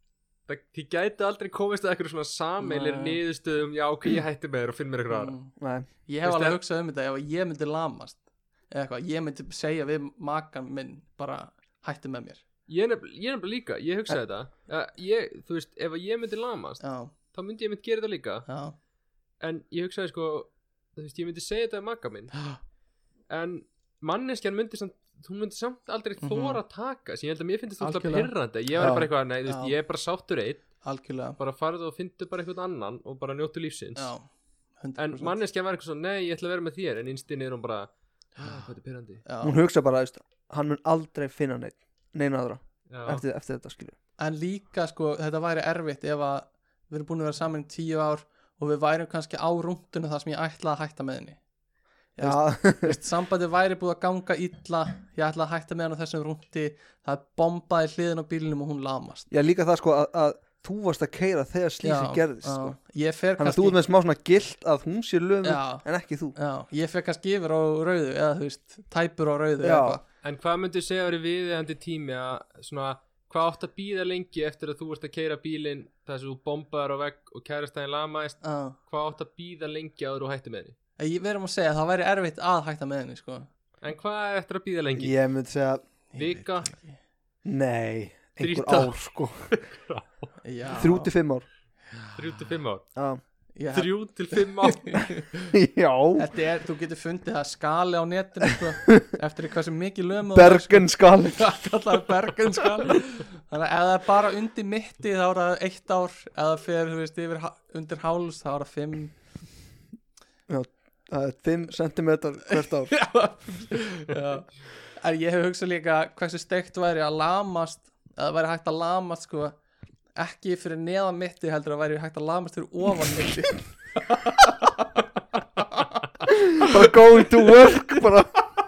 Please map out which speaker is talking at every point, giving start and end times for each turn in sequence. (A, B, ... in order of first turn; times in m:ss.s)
0:00.5-0:05.4 A
0:02.6-0:03.2 B
0:05.1-0:05.5 B
0:05.6-0:05.9 C
0:06.0-0:12.4 B
0:06.2-0:06.6 A
0:12.7-0:18.4 A
0:16.8-0:17.1 B
0:18.4-0:18.8 B
0:19.4-0:22.4 A
0:23.3-0:30.7 A
0:26.2-0:26.6 B
0:27.8-0:28.3 B
0:28.8-0:29.1 C
0:29.4-0:29.7 B
0:30.8-0:31.4 B
0:31.4-0:34.1 A
0:34.0-0:34.3 B
0:34.8-0:35.4 B
0:35.0-0:39.2 A
0:39.2-0:39.6 B
0:39.4-0:43.9 C
0:42.9-0:43.2 A
0:44.2-0:51.4 B
0:52.1-0:59.3 B
0:52.2-0:53.0 C
0:59.3-1:02.8 C
1:01.8-1:03.8 B
1:03.4-1:06.4 C
1:05.4-1:10.0 B
1:09.6-1:10.0 C
1:10.2-1:20.7 A
1:18.4-1:18.8 B
1:21.0-1:23.5 B
1:23.8-1:25.2 A
1:25.0-1:25.8 C
1:26.1-1:27.0 B
1:26.2-1:26.7 A
1:27.4-1:29.5 C
1:28.4-1:30.3 A
1:30.4-1:31.1 B
1:30.8-1:31.4 C
1:32.1-1:32.9 A
1:33.0-1:33.2 C
1:33.5-1:35.5 B
1:33.7-1:35.1 A
1:35.5-1:36.3 C
1:36.2-1:49.2 B
1:40.3-1:41.5 C
1:50.5-1:52.9 C
1:52.5-1:59.6 B
2:00.2-2:08.1 B
2:06.3-2:08.4 C